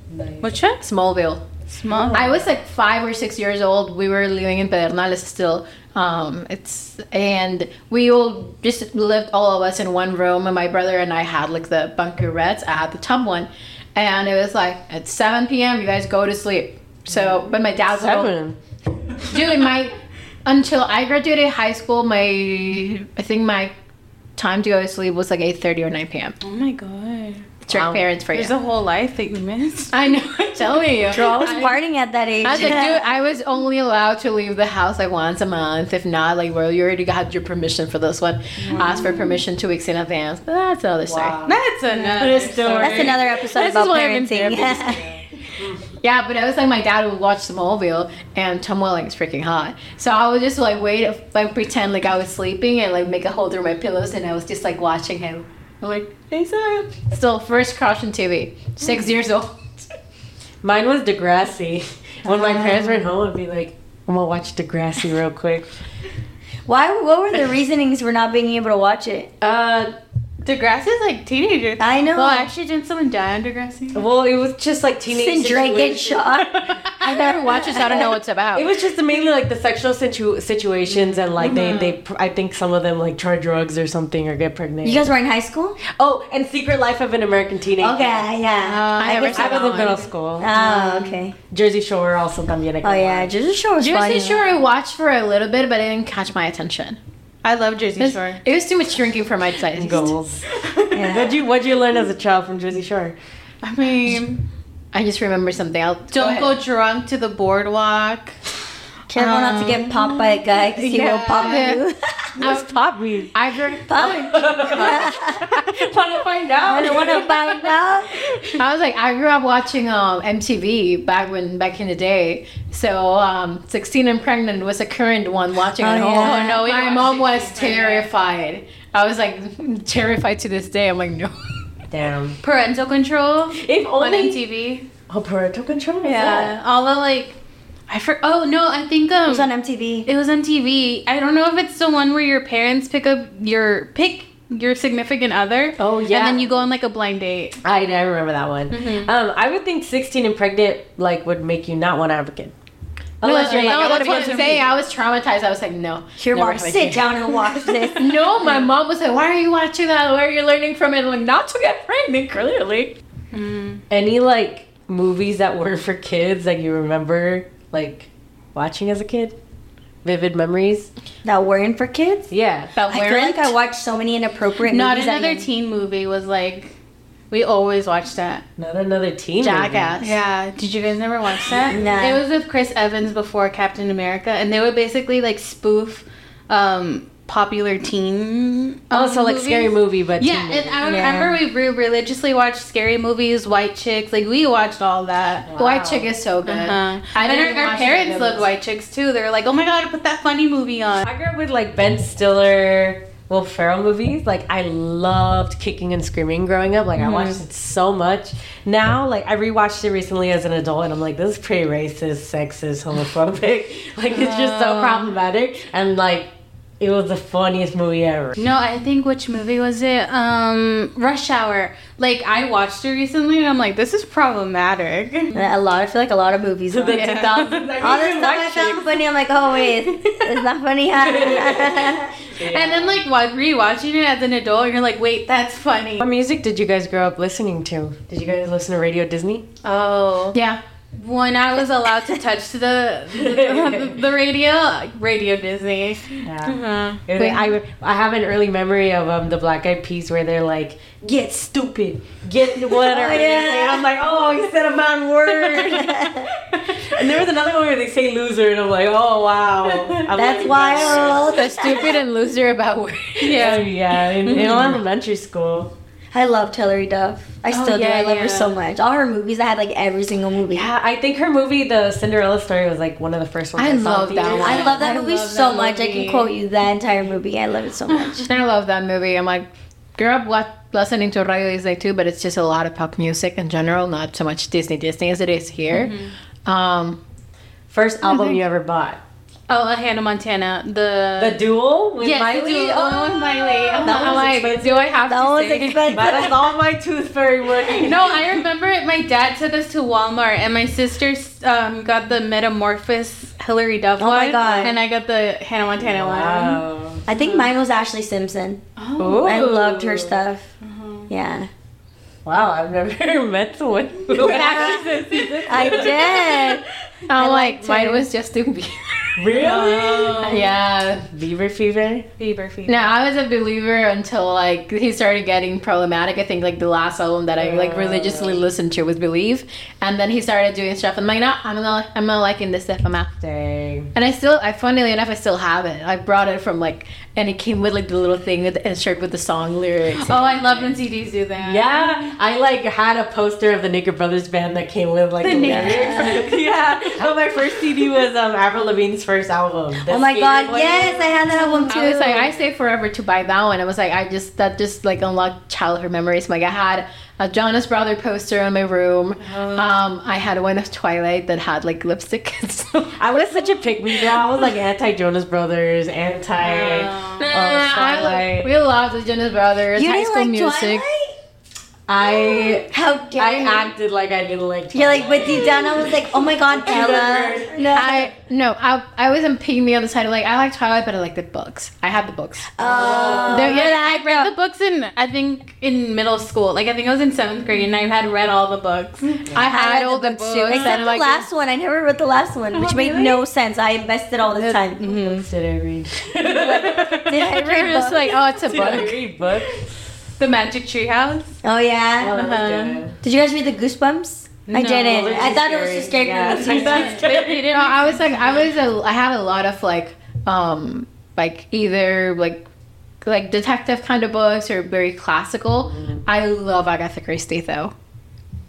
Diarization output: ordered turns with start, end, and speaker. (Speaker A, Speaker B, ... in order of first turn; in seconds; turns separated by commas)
Speaker A: 0.1-0.5, Speaker B: 0.4-0.8, Speaker C: 0.8-1.4, Speaker B: 1.7-2.4, Speaker C: 2.1-18.3, Speaker A: 17.1-18.6, Speaker C: 19.2-23.7, Speaker C: 24.4-26.4, Speaker B: 26.4-27.5, Speaker C: 27.7-28.6, Speaker A: 27.7-28.0, Speaker B: 28.3-30.8, Speaker C: 29.9-31.8, Speaker D: 31.1-33.0, Speaker C: 32.4-41.4, Speaker B: 32.6-32.9, Speaker B: 38.6-39.4, Speaker A: 41.1-41.6, Speaker B: 41.5-43.2, Speaker A: 42.2-43.2, Speaker C: 42.2-45.2, Speaker D: 42.7-45.0, Speaker C: 46.0-59.7, Speaker A: 60.6-65.7, Speaker D: 66.7-69.3, Speaker A: 69.4-69.9, Speaker B: 70.4-74.0, Speaker D: 71.8-72.5, Speaker A: 73.9-76.4, Speaker D: 75.1-78.1, Speaker B: 76.5-76.9, Speaker C: 77.0-78.7, Speaker A: 78.5-85.0, Speaker B: 81.4-82.0, Speaker D: 84.8-85.8, Speaker A: 85.9-88.2, Speaker D: 87.8-89.6, Speaker B: 88.6-91.2, Speaker C: 89.0-90.0, Speaker A: 89.2-90.5, Speaker D: 90.4-91.3, Speaker A: 91.5-93.3, Speaker D: 92.8-94.5, Speaker C: 93.8-97.0, Speaker B: 97.4-98.4, Speaker C: 98.0-100.1, Speaker A: 99.8-100.5, Speaker B: 100.5-101.1, Speaker D: 100.9-101.4, Speaker A: 101.0-103.2, Speaker B: 103.6-104.4, Speaker C: 104.9-106.6, Speaker B: 106.1-108.4, Speaker D: 109.1-112.4, Speaker B: 109.1-111.8, Speaker C: 111.4-111.8, Speaker A: 112.4-113.3, Speaker C: 112.4-114.2, Speaker D: 113.9-115.6, Speaker A: 114.0-117.7, Speaker D: 116.7-118.2, Speaker C: 118.5-131.5, Speaker D: 125.8-126.6, Speaker B: 126.2-128.1, Speaker A: 131.9-132.4, Speaker B: 132.4-134.9, Speaker A: 133.5-134.4, Speaker A: 135.1-136.5, Speaker B: 136.0-137.4, Speaker B: 137.9-139.5, Speaker D: 139.3-140.1, Speaker B: 140.1-147.6, Speaker A: 145.8-146.7, Speaker A: 147.6-152.5, Speaker B: 148.7-149.1, Speaker A: 153.2-154.6, Speaker B: 153.2-154.7, Speaker C: 153.2-157.1, Speaker D: 156.2-158.2, Speaker C: 157.9-162.9, Speaker B: 163.3-163.8, Speaker A: 163.9-169.4, Speaker A: 170.0-170.9, Speaker D: 171.2-172.3, Speaker A: 172.3-172.7, Speaker C: 172.8-173.5, Speaker D: 172.9-175.5, Speaker B: 174.7-176.7, Speaker B: 177.3-178.4, Speaker A: 178.6-180.0, Speaker C: 179.4-180.2, Speaker B: 180.0-195.5, Speaker D: 181.7-182.2, Speaker A: 188.9-191.1, Speaker D: 190.8-191.4, Speaker A: 195.5-196.1, Speaker C: 195.6-198.5, Speaker B: 196.5-201.1, Speaker A: 201.0-218.4, Speaker B: 207.0-207.4, Speaker B: 214.1-215.1, Speaker B: 218.4-225.4, Speaker D: 225.3-232.2, Speaker A: 226.7-229.0, Speaker B: 226.9-227.7, Speaker A: 230.9-233.0, Speaker B: 232.5-236.1, Speaker A: 236.0-239.5, Speaker B: 239.6-240.4, Speaker C: 240.3-240.6, Speaker B: 240.9-247.0, Speaker A: 243.1-244.0, Speaker A: 246.2-261.5, Speaker C: 247.2-247.5, Speaker D: 252.7-253.9, Speaker D: 255.3-256.3, Speaker D: 260.1-262.0, Speaker C: 261.3-263.6, Speaker B: 263.2-264.8, Speaker A: 263.3-265.7, Speaker D: 266.1-270.7, Speaker B: 267.5-268.5, Speaker A: 270.5-274.9, Speaker C: 273.6-274.9, Speaker B: 274.2-276.3, Speaker D: 274.3-278.3, Speaker B: 277.9-278.3, Speaker C: 278.3-287.0, Speaker B: 285.7-286.1, Speaker A: 287.7-289.0, Speaker B: 288.1-288.4, Speaker B: 289.5-291.4, Speaker A: 291.2-294.9, Speaker B: 292.0-294.5, Speaker C: 293.7-296.1, Speaker D: 295.1-296.5, Speaker A: 295.9-298.4, Speaker B: 297.7-307.5, Speaker D: 304.0-304.8, Speaker A: 305.8-307.0, Speaker D: 307.1-308.6, Speaker B: 308.8-309.4, Speaker A: 309.0-310.2, Speaker D: 309.2-310.5, Speaker B: 310.6-311.1, Speaker D: 311.1-311.5, Speaker A: 312.2-316.6, Speaker B: 314.1-316.4, Speaker D: 314.4-314.7, Speaker D: 315.5-316.6, Speaker C: 317.1-319.5, Speaker D: 317.2-318.0, Speaker A: 319.2-320.4, Speaker B: 319.3-320.5, Speaker C: 320.2-321.1, Speaker A: 321.1-322.1, Speaker B: 322.2-322.9, Speaker C: 322.7-333.2, Speaker A: 327.4-328.4, Speaker A: 333.2-333.9, Speaker C: 333.9-340.2, Speaker B: 340.0-342.1, Speaker A: 340.2-340.8, Speaker A: 341.4-351.1, Speaker B: 345.2-346.5, Speaker D: 345.3-346.3, Speaker D: 349.9-352.3, Speaker C: 351.7-363.0, Speaker B: 359.2-359.7, Speaker A: 363.0-368.5, Speaker B: 366.4-367.4, Speaker C: 367.3-370.9, Speaker D: 369.8-371.1, Speaker A: 371.9-377.8, Speaker D: 372.1-373.7, Speaker D: 374.7-378.1, Speaker C: 377.7-382.5, Speaker D: 382.6-384.3, Speaker A: 382.6-383.6, Speaker B: 382.9-390.9, Speaker C: 383.3-383.7, Speaker C: 389.3-391.3, Speaker D: 389.5-394.9, Speaker A: 392.6-393.1, Speaker B: 392.6-393.2, Speaker A: 394.8-397.3, Speaker B: 394.8-395.3, Speaker B: 396.4-396.7, Speaker D: 396.5-398.2, Speaker C: 397.2-399.0, Speaker A: 398.4-399.9, Speaker B: 400.2-401.4, Speaker D: 401.4-402.2, Speaker A: 402.0-403.0, Speaker B: 402.1-402.8, Speaker D: 403.0-407.0, Speaker B: 404.5-405.4, Speaker A: 404.7-407.6, Speaker B: 406.5-408.4, Speaker C: 407.5-412.4, Speaker C: 413.0-417.7, Speaker A: 415.7-416.0